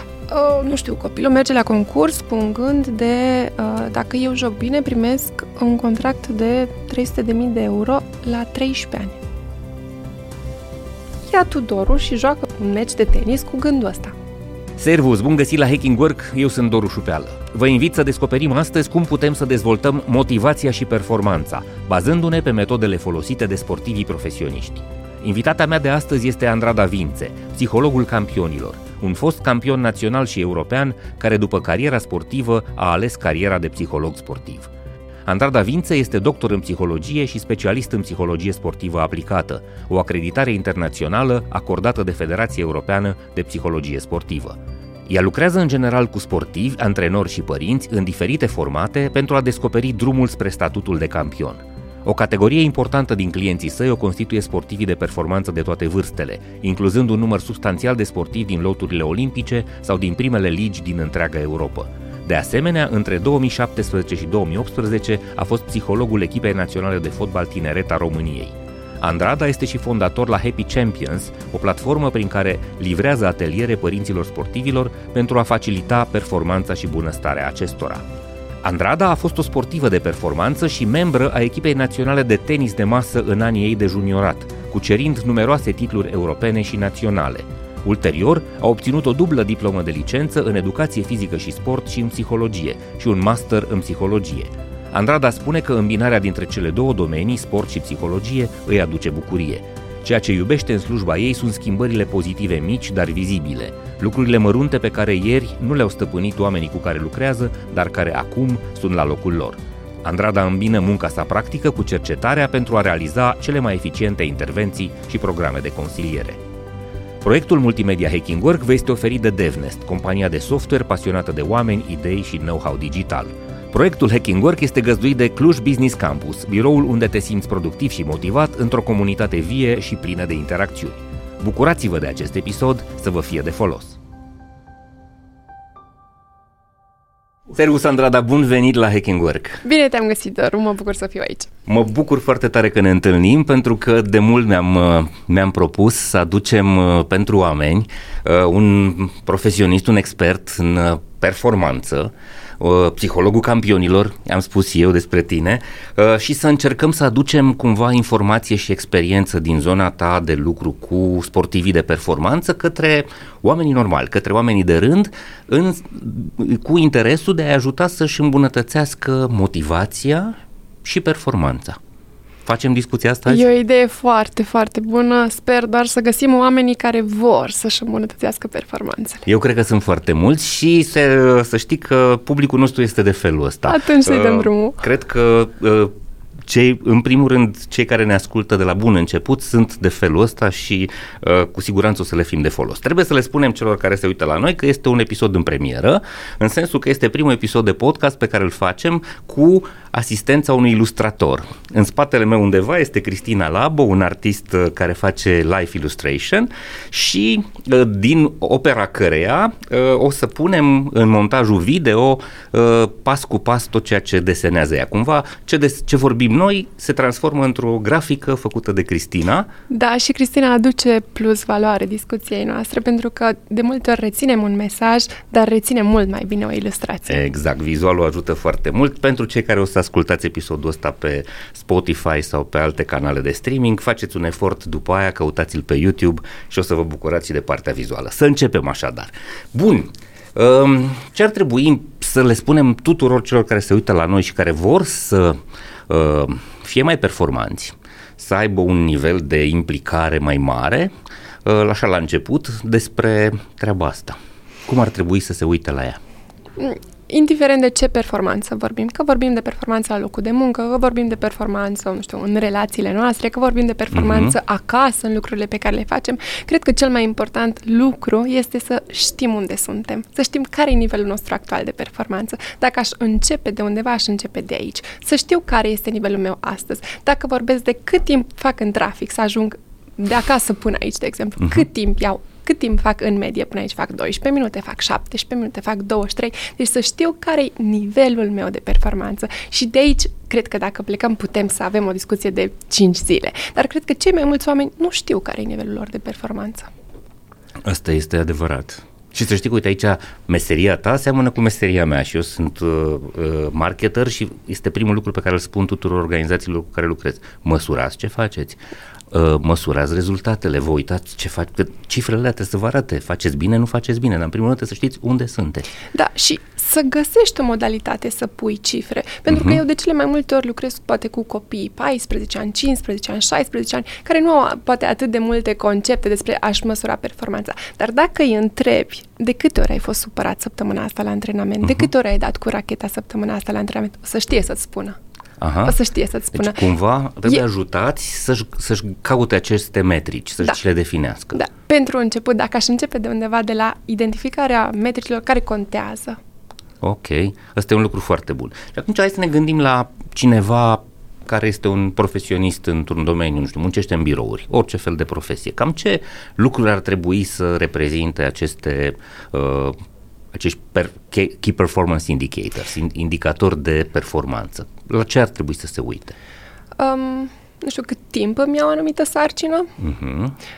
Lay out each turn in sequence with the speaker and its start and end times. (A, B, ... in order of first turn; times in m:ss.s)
0:00.3-0:09.2 A
0:11.3-0:14.1 A
0:14.8-0:34.7 B
0:35.3-1:18.1 B
1:18.6-1:56.4 B
1:57.2-2:14.0 B
2:17.5-2:19.6 B
2:19.6-2:21.5 A
2:21.7-2:51.8 B
2:52.5-2:53.5 B
2:53.3-2:59.3 A
2:59.3-3:05.9 B
3:03.7-3:04.8 A
3:06.5-3:39.5 B
3:39.7-3:47.2 A
3:47.1-4:10.9 B
4:11.4-4:16.0 B
4:16.6-4:56.7 A
4:23.9-4:24.4 B
4:41.4-4:41.7 B
4:57.6-5:08.6 B
5:09.1-5:15.7 B
5:15.9-5:35.0 A
5:19.3-5:19.6 B
5:35.4-5:35.8 B
5:35.6-5:36.7 A
5:36.3-5:41.4 B
5:41.3-5:46.2 A
5:46.8-5:59.8 B
6:00.3-6:06.2 B
6:06.8-6:09.7 A
6:09.8-6:10.4 B